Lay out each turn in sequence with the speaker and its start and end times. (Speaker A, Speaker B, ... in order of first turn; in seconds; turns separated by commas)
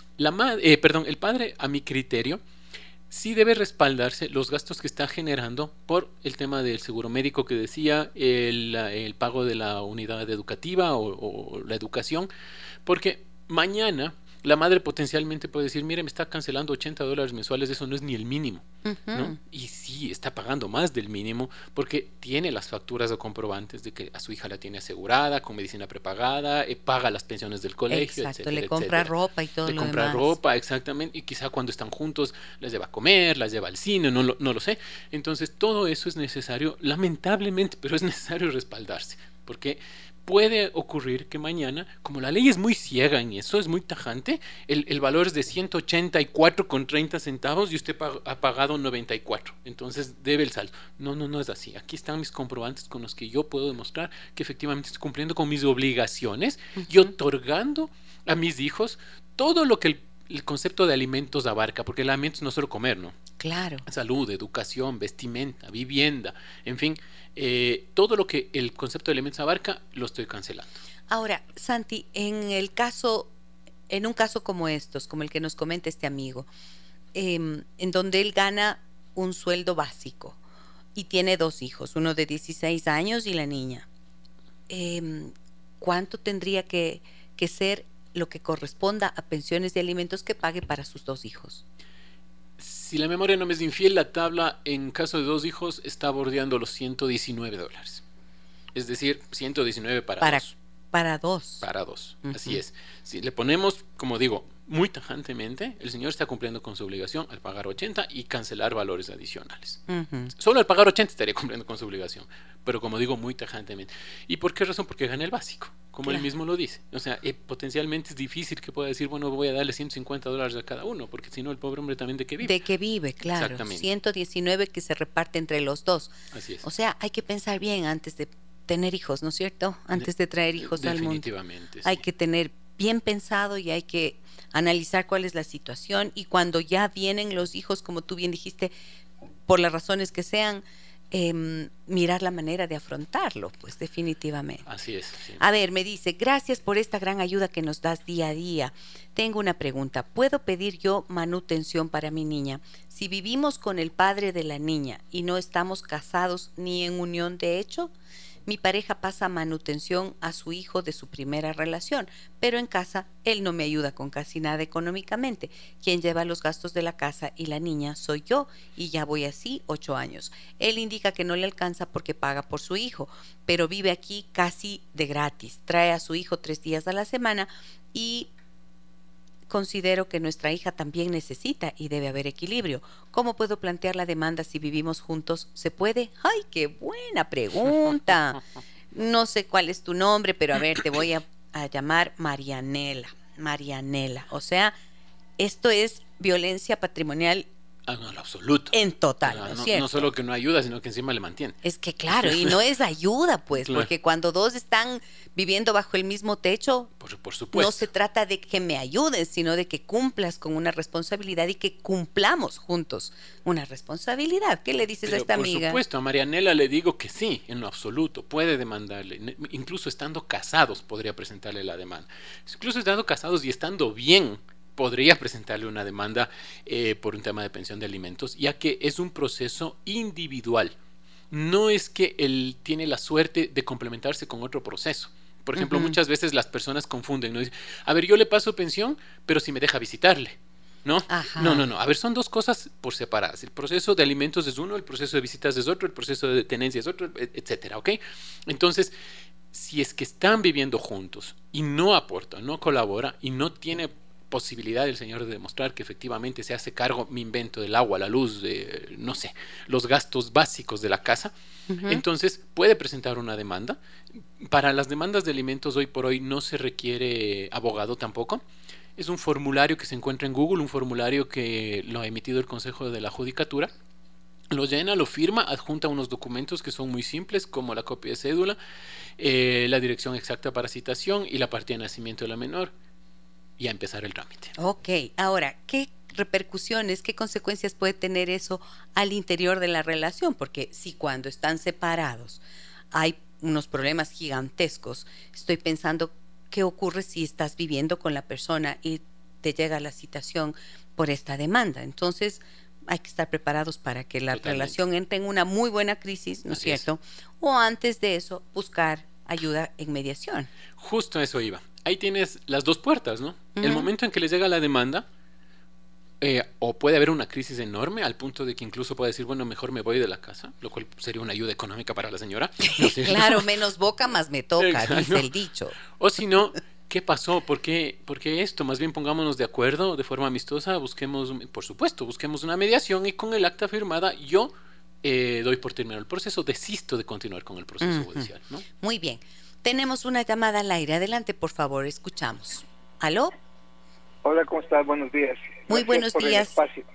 Speaker A: 0.2-2.4, Speaker A: 3.1-12.3, Speaker A: 12.8-29.1, Speaker B: 18.8-19.4, Speaker B: 27.9-30.3, Speaker A: 29.6-63.2, Speaker B: 63.4-63.8, Speaker A: 63.9-70.7, Speaker B: 71.1-73.3, Speaker B: 73.9-76.5, Speaker B: 77.1-80.4, Speaker B: 80.9-83.9, Speaker B: 84.7-91.6, Speaker A: 92.6-98.0, Speaker A: 98.7-100.5, Speaker B: 100.2-101.6, Speaker A: 101.6-109.8, Speaker B: 102.2-102.6, Speaker B: 109.9-110.3, Speaker A: 110.3-122.5, Speaker B: 122.4-126.1, Speaker A: 123.2-123.8, Speaker A: 126.3-126.6, Speaker B: 126.6-131.3, Speaker A: 130.0-132.0, Speaker B: 131.8-138.7, Speaker B: 139.5-144.7, Speaker A: 144.7-145.4, Speaker B: 145.4-157.9, Speaker B: 158.4-178.3, Speaker B: 179.5-188.4, Speaker B: 188.9-194.7, Speaker B: 195.4-197.4, Speaker A: 197.9-201.6, Speaker B: 198.7-200.1, Speaker B: 201.6-206.9, Speaker A: 202.2-202.5, Speaker A: 203.6-203.9, Speaker A: 207.0-207.8, Speaker B: 207.5-215.8, Speaker A: 215.0-230.7, Speaker A: 231.3-248.9, Speaker B: 235.6-235.9, Speaker B: 241.1-241.6, Speaker A: 249.5-261.3, Speaker B: 261.7-262.0, Speaker A: 261.9-268.4, Speaker A: 269.0-273.7, Speaker A: 274.5-278.6, Speaker A: 279.2-282.7, Speaker A: 283.6-284.5, Speaker B: 284.6-292.4, Speaker B: 292.9-310.5, Speaker A: 304.3-304.8, Speaker A: 306.5-306.8, Speaker A: 310.8-315.0, Speaker B: 313.6-313.9, Speaker A: 316.2-323.5, Speaker B: 322.6-325.8, Speaker A: 324.6-325.3, Speaker A: 326.0-338.6, Speaker B: 337.8-338.3, Speaker B: 338.8-343.3, Speaker C: 344.2-346.8, Speaker B: 345.7-346.5